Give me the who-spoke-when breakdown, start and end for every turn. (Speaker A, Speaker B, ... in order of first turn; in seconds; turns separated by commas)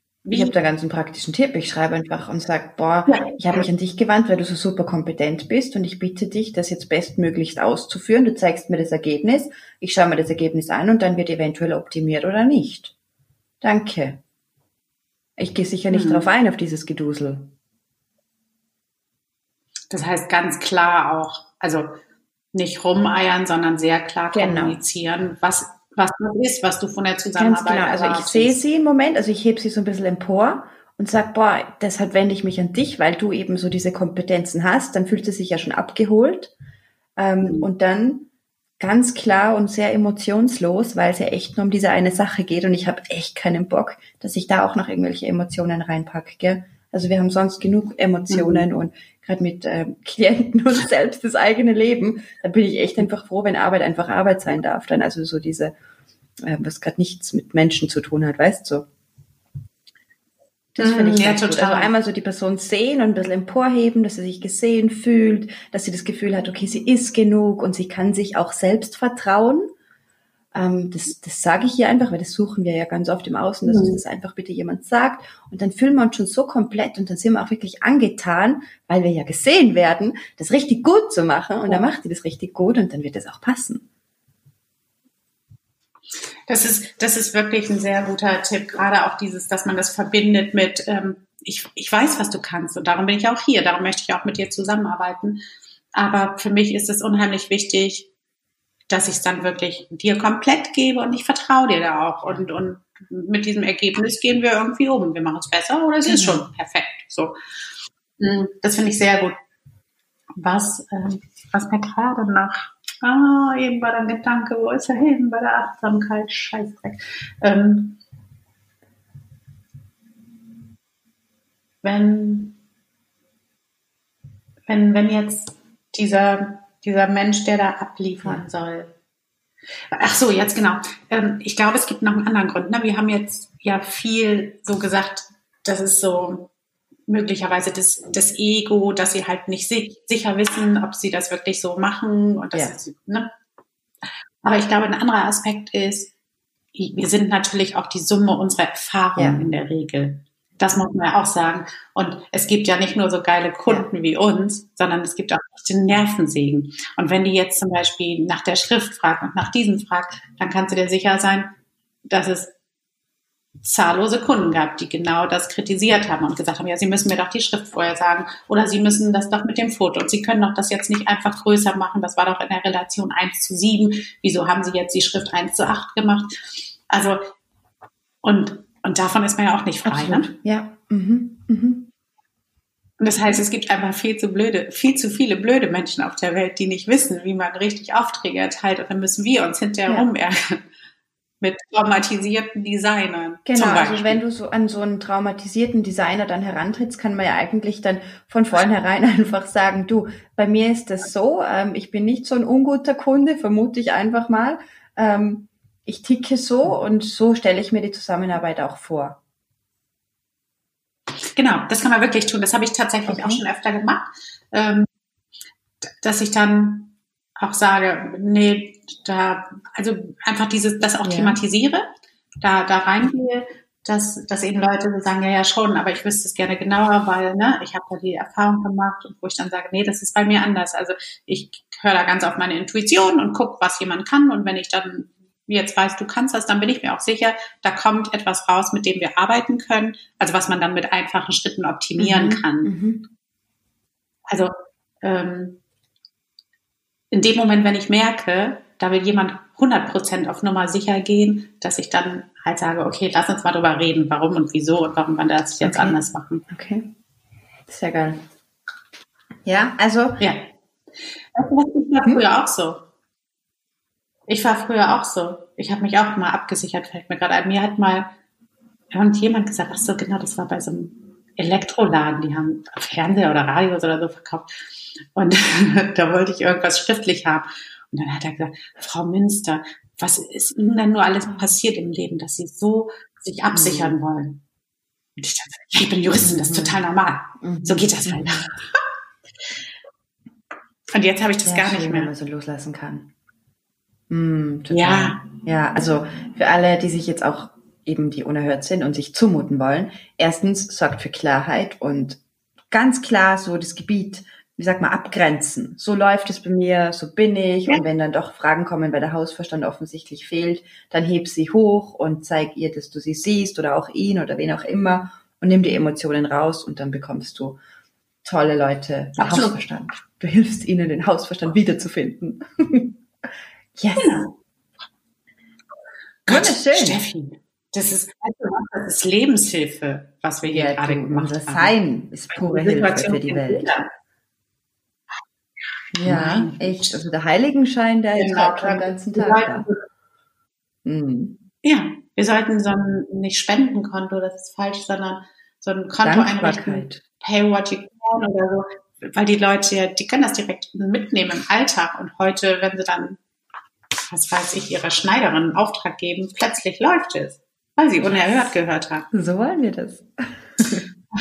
Speaker A: 0.2-0.5, Speaker B: 0.3-12.9, Speaker A: 3.1-3.6, Speaker B: 13.6-14.2, Speaker B: 15.4-17.5, Speaker A: 15.9-16.3, Speaker A: 19.9-22.0, Speaker A: 22.5-28.6, Speaker B: 24.3-24.8, Speaker B: 27.4-36.5, Speaker B: 37.2-55.7, Speaker A: 37.4-37.7, Speaker A: 48.3-48.7, Speaker B: 56.4-58.9, Speaker B: 60.8-69.7, Speaker A: 60.8-61.9, Speaker B: 70.5-83.9, Speaker A: 73.7-74.0, Speaker A: 86.5-95.4, Speaker A: 95.9-98.1, Speaker A: 98.9-107.4, Speaker B: 106.0-106.4, Speaker A: 108.2-109.4, Speaker A: 110.4-118.0, Speaker A: 121.8-122.6, Speaker A: 124.7-128.9, Speaker A: 129.9-136.5, Speaker A: 137.1-143.3, Speaker A: 144.4-146.1, Speaker A: 146.7-161.5, Speaker B: 149.2-149.4, Speaker A: 162.1-162.5, Speaker A: 163.6-176.3, Speaker A: 176.9-177.3, Speaker A: 178.2-180.3, Speaker B: 179.8-181.9, Speaker A: 183.0-190.6, Speaker A: 191.4-194.2, Speaker B: 193.4-209.2, Speaker A: 211.4-214.9, Speaker B: 213.1-213.4, Speaker A: 216.0-221.9, Speaker B: 221.0-221.4, Speaker A: 222.4-242.7, Speaker B: 242.0-243.1, Speaker A: 244.3-245.6, Speaker A: 247.1-256.4, Speaker B: 255.6-256.0, Speaker B: 256.5-256.9, Speaker B: 257.7-258.2, Speaker B: 259.4-260.2, Speaker A: 260.2-260.5, Speaker A: 261.3-262.8, Speaker A: 264.3-268.1, Speaker A: 268.9-274.5, Speaker A: 275.1-284.4, Speaker B: 283.5-283.9, Speaker A: 285.2-288.8, Speaker B: 286.3-286.8, Speaker B: 287.4-288.5, Speaker A: 290.9-292.1, Speaker B: 291.4-293.1, Speaker B: 294.1-317.6, Speaker A: 294.7-295.2, Speaker B: 318.2-323.0, Speaker A: 319.1-319.5, Speaker B: 323.8-324.2, Speaker A: 324.0-324.3, Speaker A: 326.2-331.7, Speaker B: 326.3-327.0, Speaker B: 330.5-333.7, Speaker A: 332.3-333.9, Speaker B: 335.9-339.7, Speaker A: 336.0-337.0, Speaker A: 338.1-339.8, Speaker B: 340.9-341.4, Speaker A: 341.6-353.2, Speaker B: 346.0-347.0, Speaker A: 354.1-359.1, Speaker B: 358.0-358.5, Speaker B: 359.1-360.9